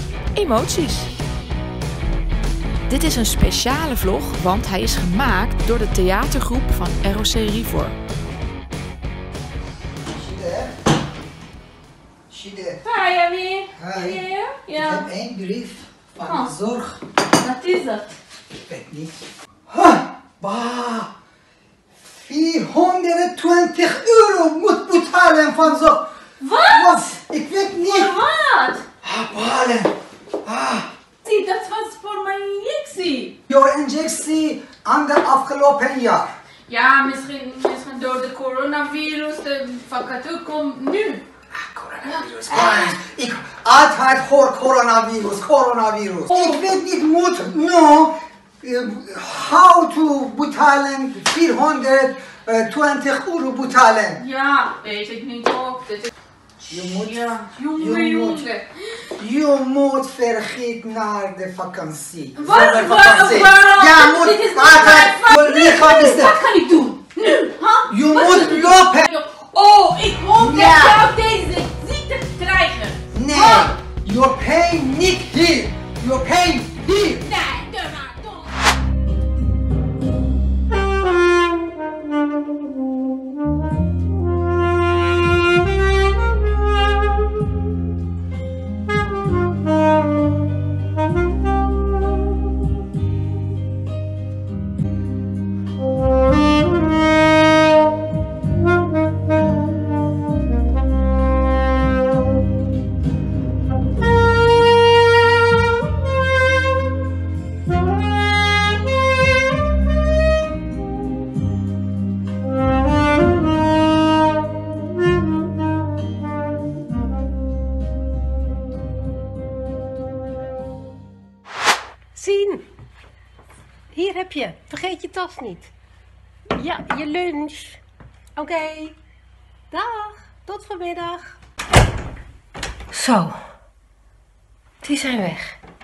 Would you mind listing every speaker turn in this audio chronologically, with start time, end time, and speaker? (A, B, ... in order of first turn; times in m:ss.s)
0:00.3-0:01.1 A
0:02.9-0:08.0 A
0:10.1-0:10.7 B
0:12.3-0:12.8 B
0:12.8-0:15.0 C
0:13.8-0:17.0 B
0:17.4-0:18.2 C
0:18.6-0:19.1 B
0:19.7-0:21.1 B
0:22.1-0:26.1 B
0:26.4-0:26.9 C
0:26.6-0:28.1 B
0:28.0-0:28.8 C
0:29.0-0:30.9 B
0:31.2-0:33.3 C
0:33.5-0:36.3 B
0:36.7-0:41.2 C
0:41.5-0:54.2 B
0:54.2-0:56.1 C
0:56.7-0:58.4 B
0:57.0-0:58.6 C
0:59.2-1:06.4 B
1:02.4-1:13.4 C
1:07.9-1:09.1 B
1:10.3-1:11.1 B
1:13.1-1:17.2 B
1:17.2-1:18.5 C
2:02.1-2:02.6 D
2:03.9-2:05.7 D
2:06.6-2:07.8 D
2:08.4-2:09.0 D
2:09.7-2:11.4 D
2:12.9-2:13.3 D
2:14.8-2:15.6 D